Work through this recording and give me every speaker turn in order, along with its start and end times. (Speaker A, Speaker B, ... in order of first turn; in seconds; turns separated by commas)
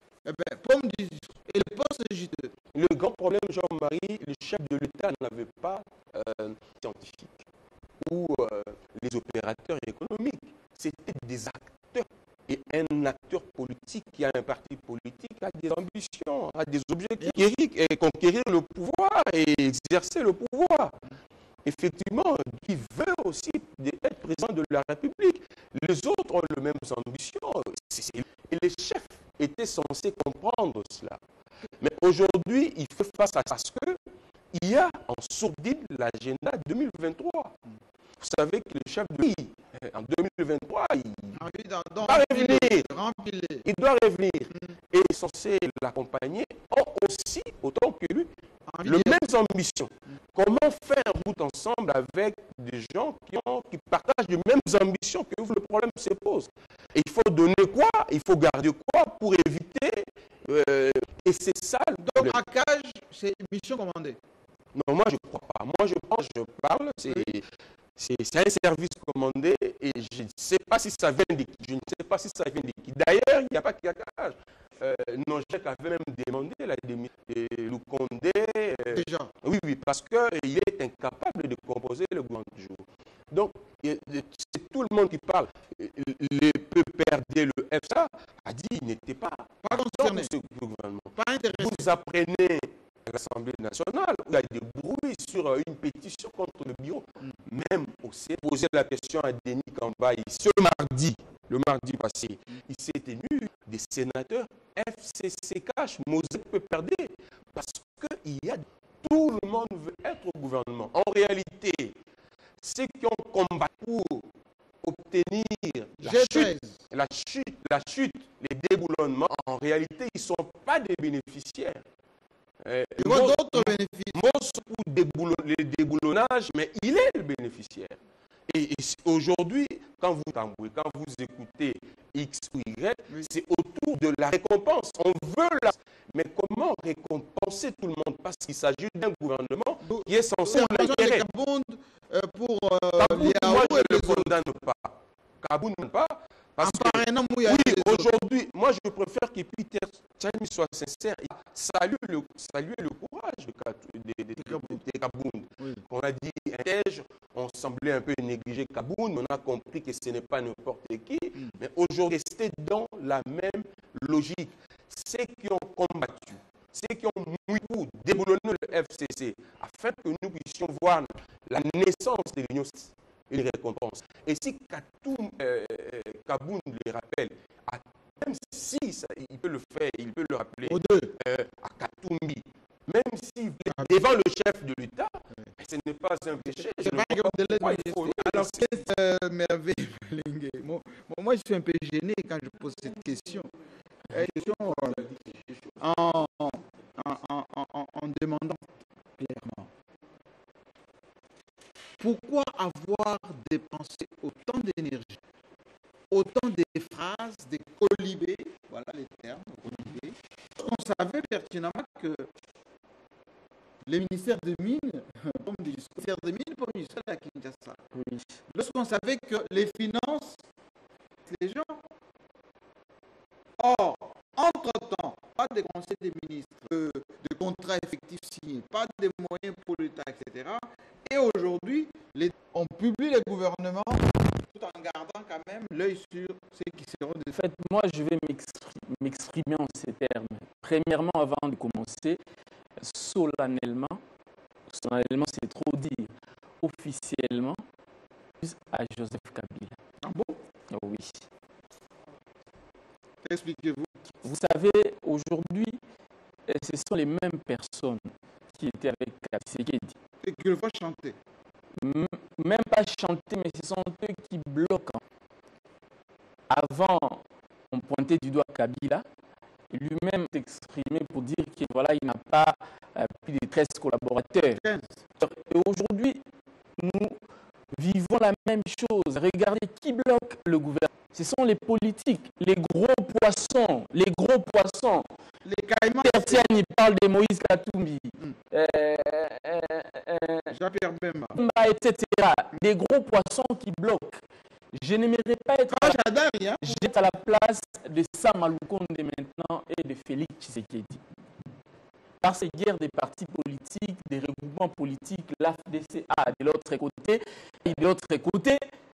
Speaker A: 0.2-2.5, Speaker B: 2.7-7.4, Speaker B: 8.0-20.9, Speaker B: 21.6-31.2, Speaker B: 31.8-34.0, Speaker B: 34.5-37.5, Speaker B: 38.2-41.4, Speaker A: 41.4-43.7, Speaker B: 42.0-42.9, Speaker B: 43.6-48.3, Speaker A: 48.7-49.2, Speaker B: 48.8-62.4, Speaker A: 62.0-64.2, Speaker B: 64.8-67.5, Speaker B: 68.0-112.0, Speaker A: 78.9-79.3, Speaker A: 89.6-90.3, Speaker A: 91.2-91.9, Speaker B: 112.6-114.3, Speaker B: 114.8-121.8, Speaker A: 116.0-116.8, Speaker B: 122.7-141.2, Speaker A: 123.0-124.2, Speaker A: 139.8-144.3, Speaker B: 143.0-188.8, Speaker A: 146.6-148.1, Speaker A: 154.4-154.8, Speaker A: 180.7-181.1, Speaker A: 186.7-193.5, Speaker A: 194.1-195.1, Speaker B: 194.1-196.3, Speaker A: 195.8-199.7, Speaker A: 202.0-205.2, Speaker A: 206.1-212.3, Speaker A: 213.9-217.8, Speaker C: 217.9-218.3, Speaker A: 218.5-220.4, Speaker A: 221.3-221.8, Speaker A: 223.6-237.3, Speaker C: 237.3-242.2, Speaker C: 242.8-244.0, Speaker C: 244.7-247.6, Speaker C: 248.4-249.8, Speaker A: 250.0-250.4, Speaker C: 250.7-251.2, Speaker A: 253.2-254.0, Speaker C: 254.2-255.8, Speaker C: 256.5-259.9, Speaker A: 260.2-261.2, Speaker C: 261.8-265.0, Speaker C: 266.5-269.1, Speaker C: 269.7-274.6, Speaker A: 274.6-275.0, Speaker C: 275.2-276.2, Speaker C: 276.8-277.2, Speaker C: 277.8-285.1, Speaker A: 285.4-286.5, Speaker C: 286.0-290.5, Speaker A: 290.5-291.4, Speaker C: 291.4-294.2, Speaker C: 294.8-296.0, Speaker A: 295.7-296.8, Speaker C: 296.6-301.0, Speaker C: 302.2-308.6